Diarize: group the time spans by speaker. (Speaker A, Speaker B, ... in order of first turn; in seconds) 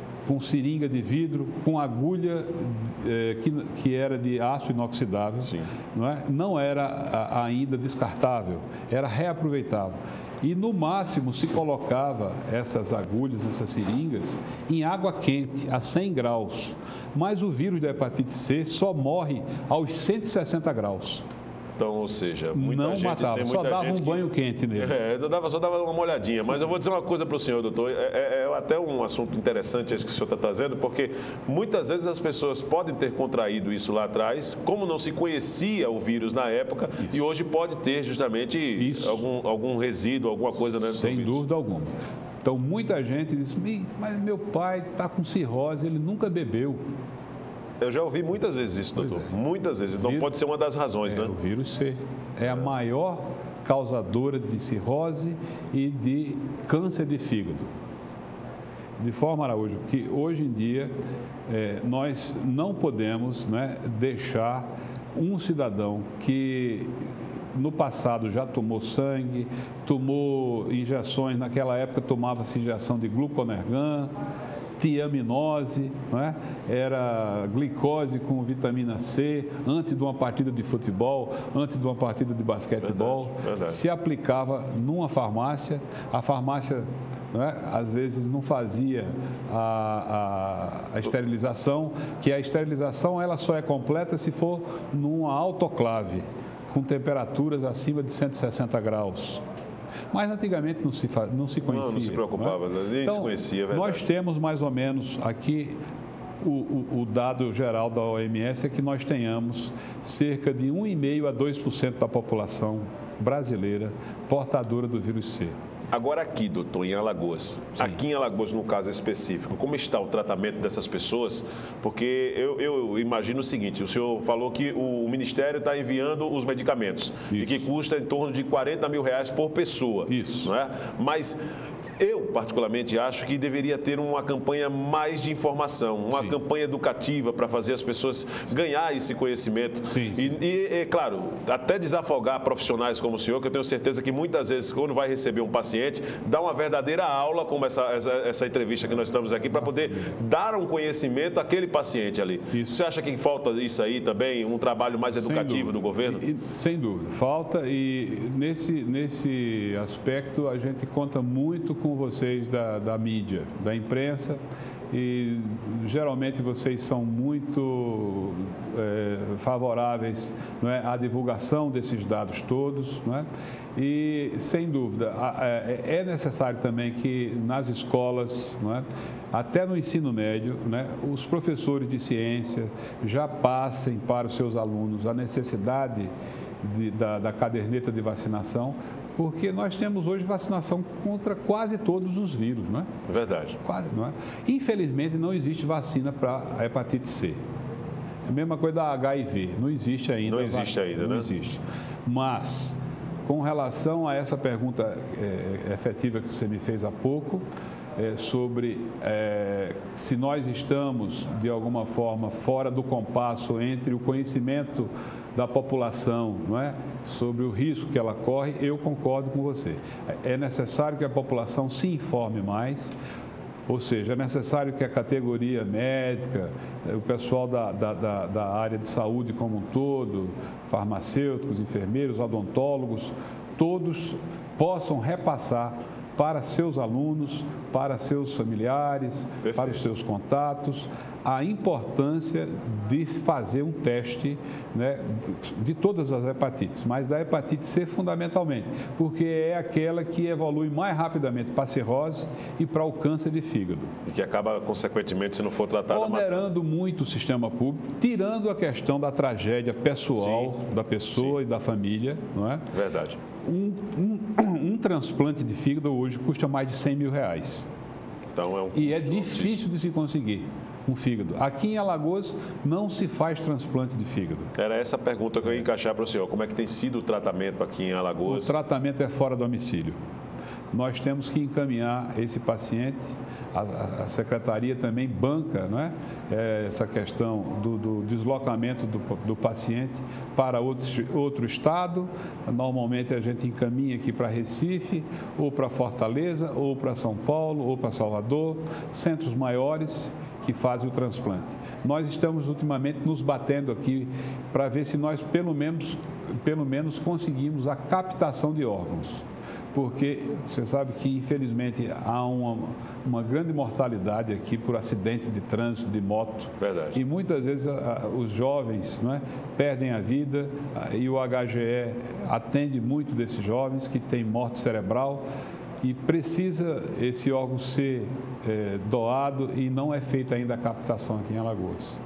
Speaker A: 0.2-21.2, 22.5-24.9, 38.8-39.2, 40.8-46.8, 49.0-49.3, 50.0-50.3, 51.0-57.7, 59.0-60.9, 61.5-66.9, 67.5-74.1, 74.8-99.4, 100.1-105.8, 106.4-115.5, 127.3-127.7, 130.1-130.5, 139.8-140.3, 149.5-150.1, 155.2-164.4, 164.9-186.1, 186.6-192.9, 193.6-197.4, 198.3-207.4, 208.0-222.9, 223.7-253.9, 255.9-262.6, 263.4-267.7, 268.7-274.5, 278.2-280.0, 280.7-325.2, 325.8-332.0
Speaker B: 5.4-5.7, 21.8-24.2, 24.8-41.4, 47.8-51.3, 82.8-83.8, 101.7-104.0, 115.9-131.4, 132.0-156.2, 193.1-193.6, 200.2-201.2, 239.4-239.8, 254.1-256.5, 260.1-260.5, 262.7-263.2, 268.3-269.6, 274.6-278.5, 316.6-317.0